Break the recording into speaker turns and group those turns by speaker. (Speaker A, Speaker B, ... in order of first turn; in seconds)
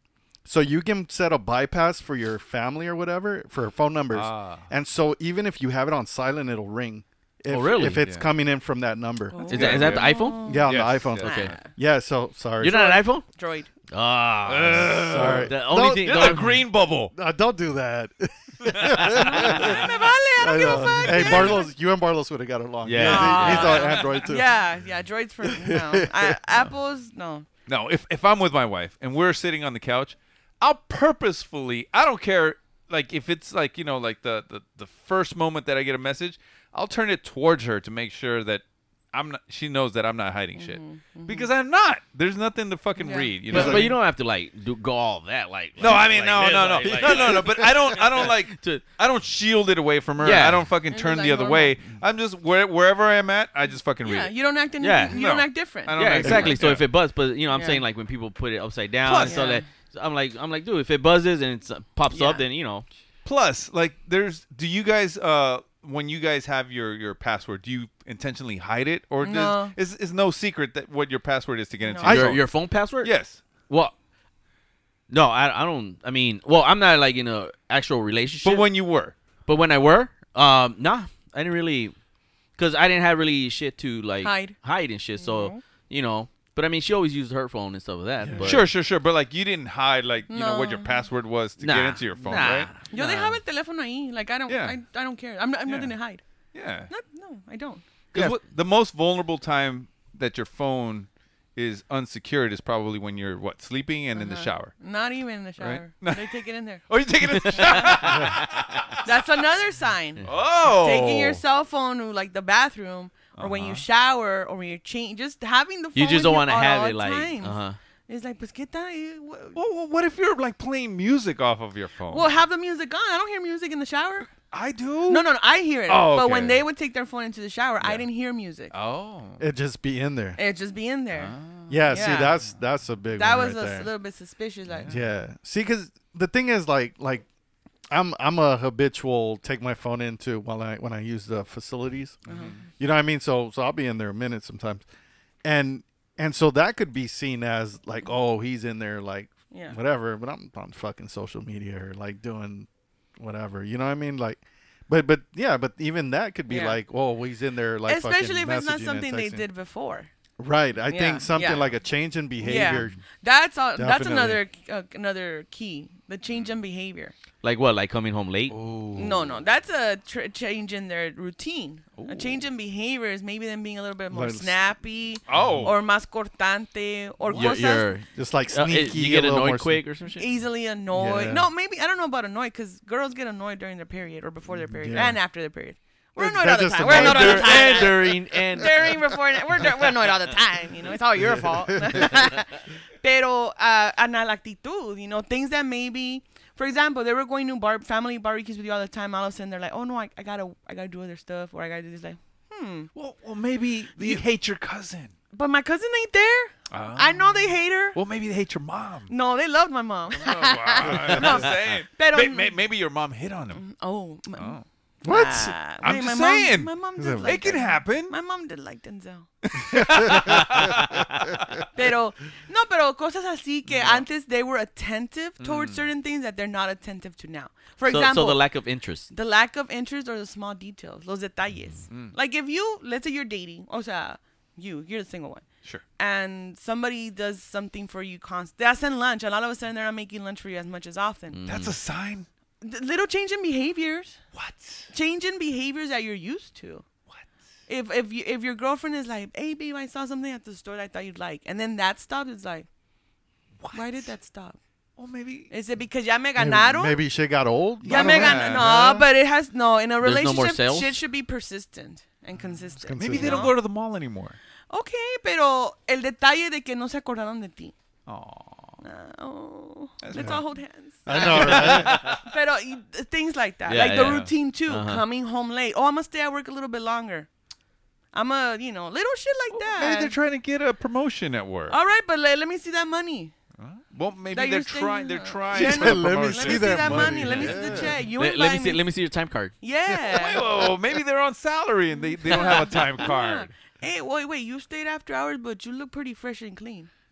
Speaker A: 0.4-9.9, 10.4-13.0, 15.0-16.4, 17.1-24.5, 25.4-26.4, 43.5-44.0, 46.8-48.0, 56.2-56.6, 88.2-88.6, 108.1-108.4, 129.4-130.4, 131.7-133.9, 134.9-137.3, 137.9-142.2, 142.8-144.8, 145.4-159.4, 160.4-163.0, 163.8-164.4, 174.1-174.6, 178.1-179.8, 180.9-181.5, 184.5-185.2, 186.2-188.0, 191.2-192.1, 210.9-211.4, 215.0-215.5, 216.9-217.4, 219.7-220.5, 256.4-259.1, 262.8-263.5, 270.1-270.4, 271.0-272.2, 285.5-288.0
Speaker B: 4.1-4.7, 8.0-8.3, 9.5-11.5, 14.5-17.1, 18.7-19.8, 21.0-21.6, 23.3-24.4, 27.7-43.9, 45.8-54.3, 55.1-56.8, 59.0-59.4, 63.2-72.5, 73.0-73.4, 78.4-79.2, 88.4-92.7, 94.5-94.8, 95.7-95.9, 96.5-96.9, 98.1-104.8, 105.6-109.1, 110.2-111.4, 113.3-113.8, 119.5-122.3, 124.5-125.3, 125.9-126.6, 127.8-128.1, 128.7-129.4, 131.1-132.4, 134.7-135.0, 142.2-142.6, 162.6-163.0, 168.5-169.4, 171.9-172.5, 175.3-175.7, 177.2-177.5, 202.9-205.1, 206.7-209.1, 210.1-213.6, 214.3-214.6, 215.8-218.1, 219.4-221.7, 223.7-224.1, 225.4-225.8, 241.5-242.3, 244.3-244.9, 253.6-254.1, 255.0-255.5, 257.8-258.8, 262.4-264.4, 268.1-268.8, 270.0-270.4, 271.1-272.3, 273.8-274.3, 279.5-281.8, 283.6-287.9, 290.1-293.5
Speaker C: 7.5-8.0, 9.5-10.5, 11.2-11.5, 12.6-13.2, 13.9-16.5, 22.8-23.9, 43.5-48.8, 50.2-50.6, 54.8-55.2, 55.9-62.8, 72.0-73.1, 73.7-73.9, 75.1-78.6, 79.5-81.9, 82.6-88.6, 91.6-93.4, 98.1-98.4, 107.3-108.0, 115.9-117.8, 167.4-168.5, 177.3-180.2, 186.8-189.0, 220.1-220.9, 227.8-229.1, 241.3-241.8, 260.0-261.0, 273.7-275.0, 288.2-289.5
Speaker D: 9.3-11.7, 13.2-13.7, 19.2-21.7, 23.0-27.4, 40.6-41.5, 43.0-43.6, 50.9-51.8, 54.0-56.5, 57.5-57.8, 59.2-59.6, 62.1-62.4, 69.2-69.7, 71.8-72.3, 84.2-84.6, 85.2-85.6, 90.3-91.0, 92.9-96.2, 96.9-97.8, 104.2-106.8, 107.6-108.1, 109.0-119.6, 122.1-124.3, 125.1-128.7, 130.4-131.3, 131.9-132.3, 133.1-134.9, 142.3-142.6, 149.5-149.8, 156.5-156.8, 157.8-160.1, 160.9-161.7, 162.4-167.1, 168.9-177.9, 180.2-202.9, 204.0-204.2, 205.3-208.0, 209.1-212.6, 213.5-219.3, 221.7-228.4, 229.1-235.4, 236.0-241.4, 242.6-244.2, 244.9-246.8, 247.7-252.7, 253.7-254.6, 255.5-257.0, 257.8-263.5, 264.7-267.7, 268.8-277.3, 278.1-280.1, 281.7-283.3, 284.3-288.8, 289.6-290.6, 291.9-296.9